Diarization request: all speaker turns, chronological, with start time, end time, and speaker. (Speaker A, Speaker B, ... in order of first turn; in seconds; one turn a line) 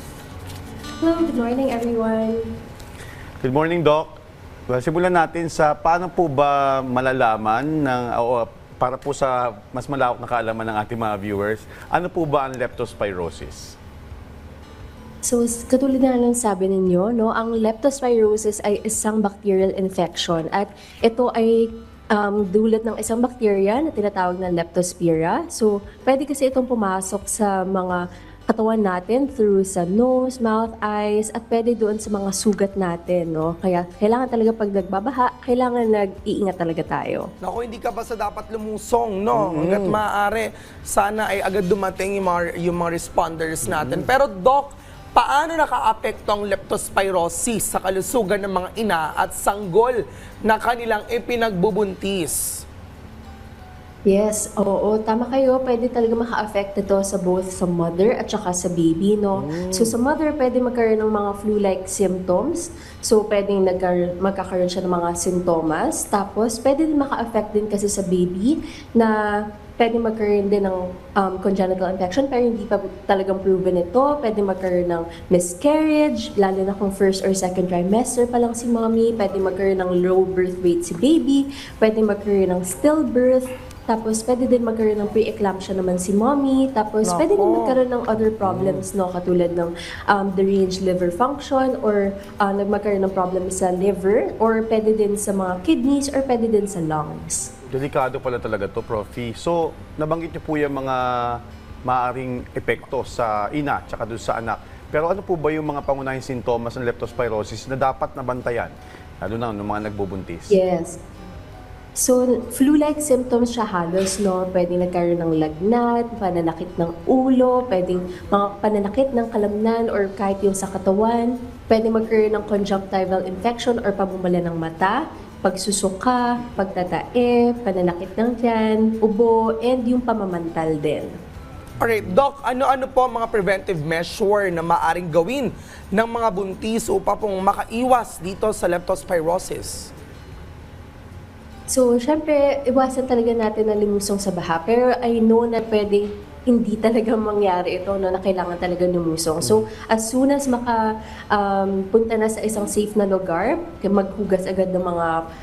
Speaker A: 1.0-2.4
Speaker B: 3.4-4.1
Speaker B: 4.7-13.7
Speaker A: 15.3-28.0
Speaker A: 28.5-37.3
Speaker C: 37.4-52.6
Speaker B: 39.4-40.0
Speaker B: 43.6-44.0
Speaker A: 54.1-69.1
Speaker B: 59.4-59.9
Speaker A: 69.8-97.5
Speaker C: 87.0-87.8
Speaker B: 88.4-88.8
Speaker B: 97.7-110.6
Speaker A: 110.5-111.0
Speaker A: 112.0-131.1
Speaker C: 131.8-139.9
Speaker A: 141.7-150.8
Speaker A: 151.3-155.1